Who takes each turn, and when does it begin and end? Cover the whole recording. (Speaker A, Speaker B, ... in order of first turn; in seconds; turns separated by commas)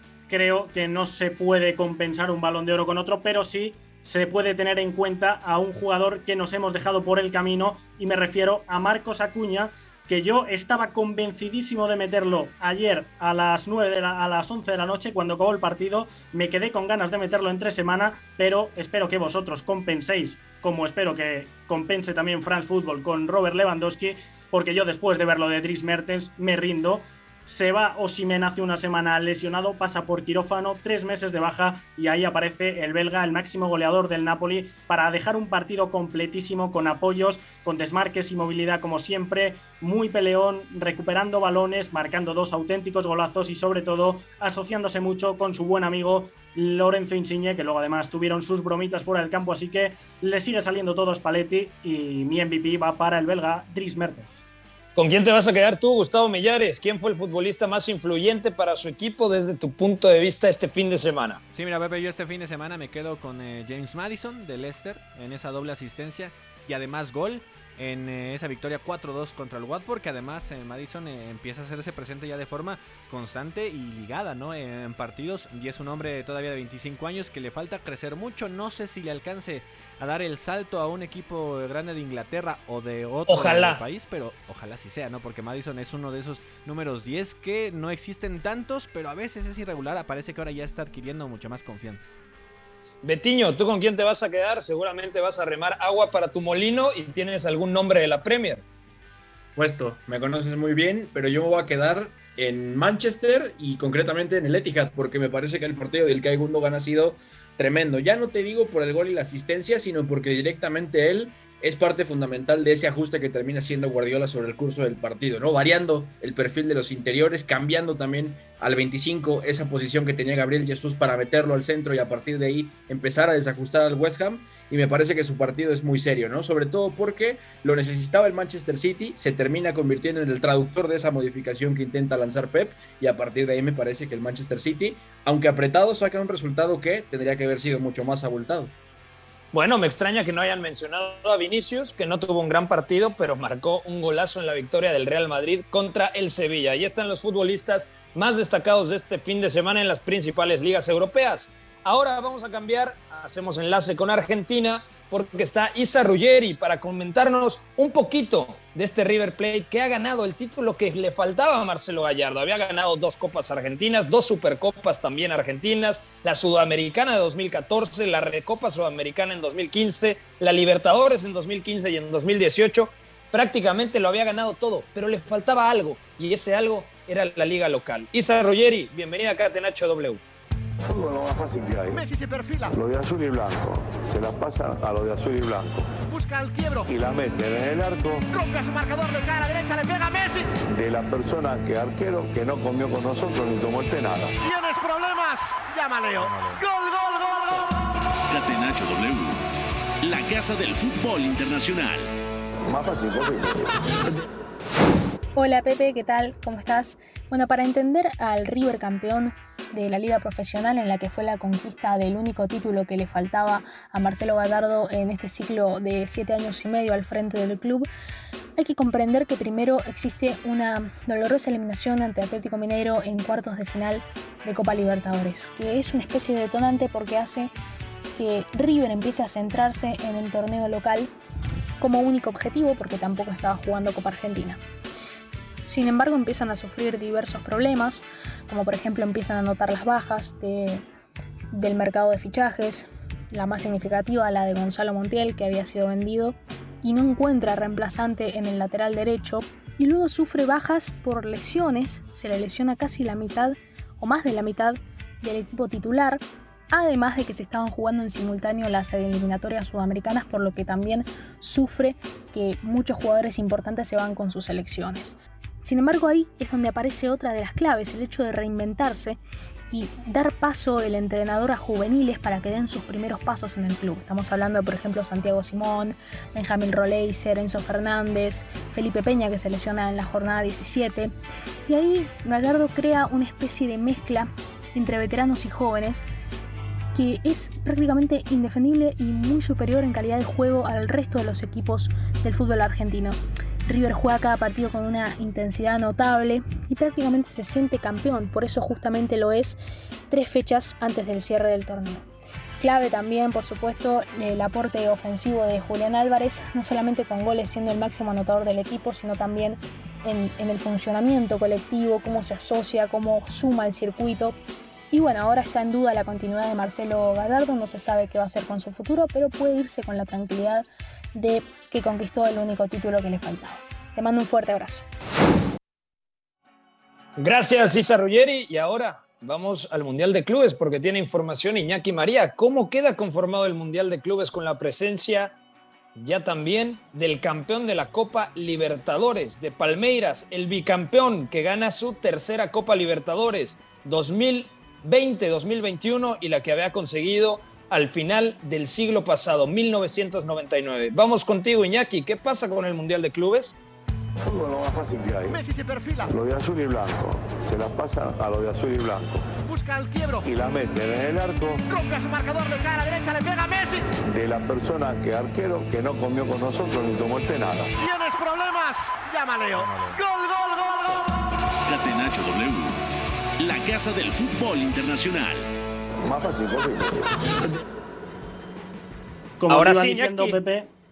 Speaker A: 0.3-54.4, Speaker B: 55.0-61.4, Speaker C: 61.5-92.1, Speaker B: 83.3-83.8, Speaker B: 93.0-98.6, Speaker D: 99.5-138.7, Speaker B: 139.5-180.2, Speaker E: 180.8-182.0, Speaker F: 181.9-182.7, Speaker E: 182.7-185.9, Speaker F: 186.1-186.9, Speaker E: 186.9-188.2, Speaker F: 188.3-190.5, Speaker E: 190.6-194.3, Speaker F: 194.4-197.6, Speaker G: 198.3-199.4, Speaker G: 200.0-202.1, Speaker E: 202.6-203.8, Speaker H: 205.3-217.8, Speaker H: 218.6-227.5, Speaker H: 228.2-231.1, Speaker H: 231.8-234.6, Speaker H: 235.7-240.8, Speaker H: 241.5-269.2, Speaker H: 269.7-281.1, Speaker H: 281.7-286.1, Speaker H: 286.9-299.6, Speaker H: 300.1-302.1, Speaker H: 302.6-314.4, Speaker H: 314.9-324.8, Speaker B: 327.2-335.4, Speaker B: 335.9-353.6, Speaker E: 354.2-355.4, Speaker F: 355.3-356.1, Speaker E: 356.1-359.2, Speaker F: 359.4-360.2, Speaker E: 360.2-361.6, Speaker F: 361.7-363.9, Speaker E: 364.0-367.7, Speaker F: 367.8-371.0, Speaker G: 371.7-372.8, Speaker G: 373.4-375.5, Speaker E: 376.0-377.1, Speaker A: 379.4-380.7, Speaker B: 379.5-380.4